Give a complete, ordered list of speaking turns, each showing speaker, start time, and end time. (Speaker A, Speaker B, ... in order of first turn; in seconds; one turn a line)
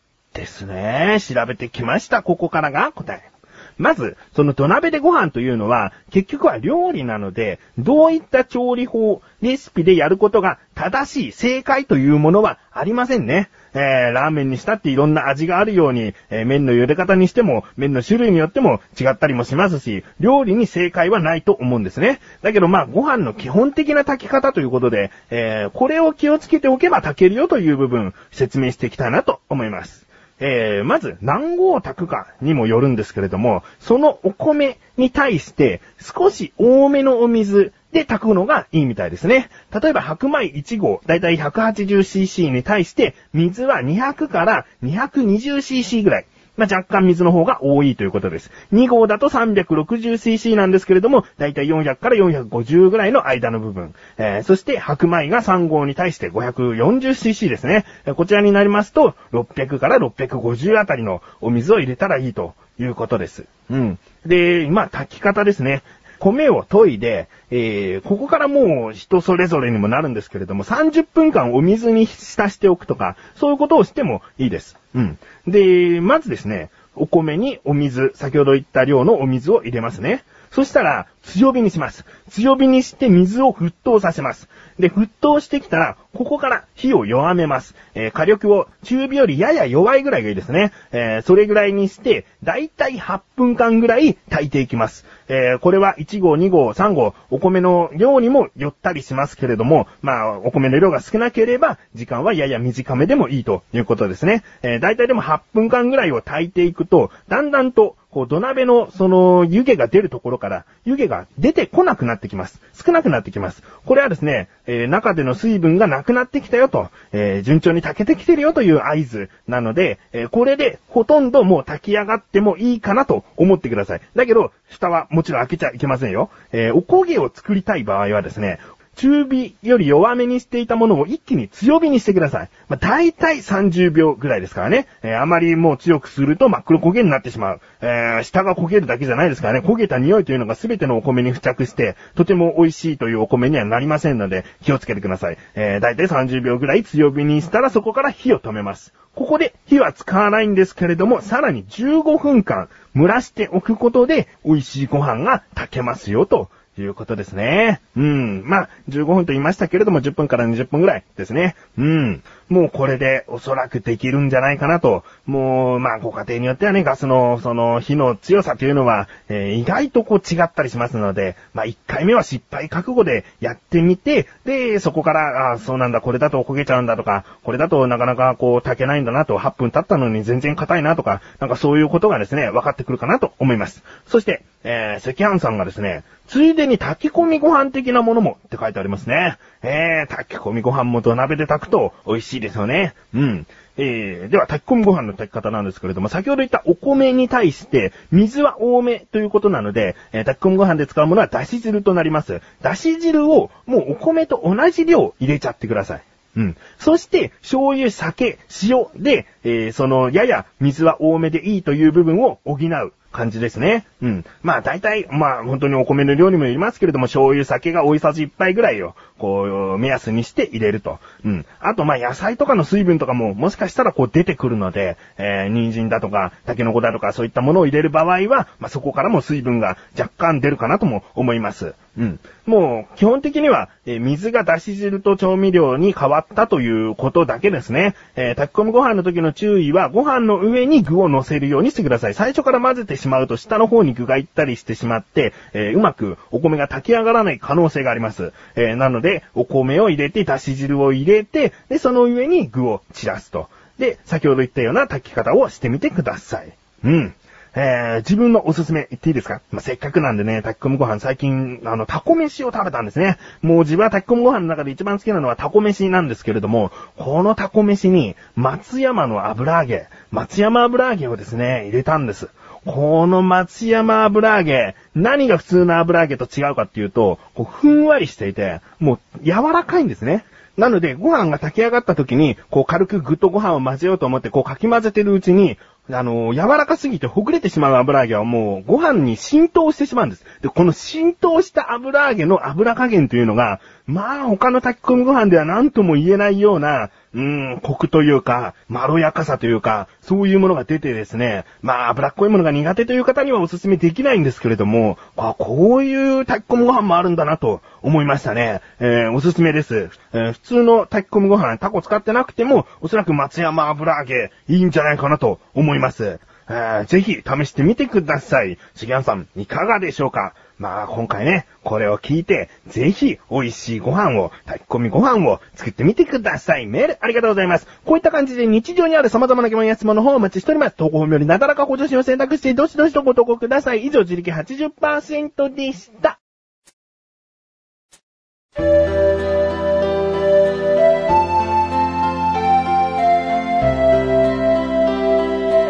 Speaker A: 0.3-336.2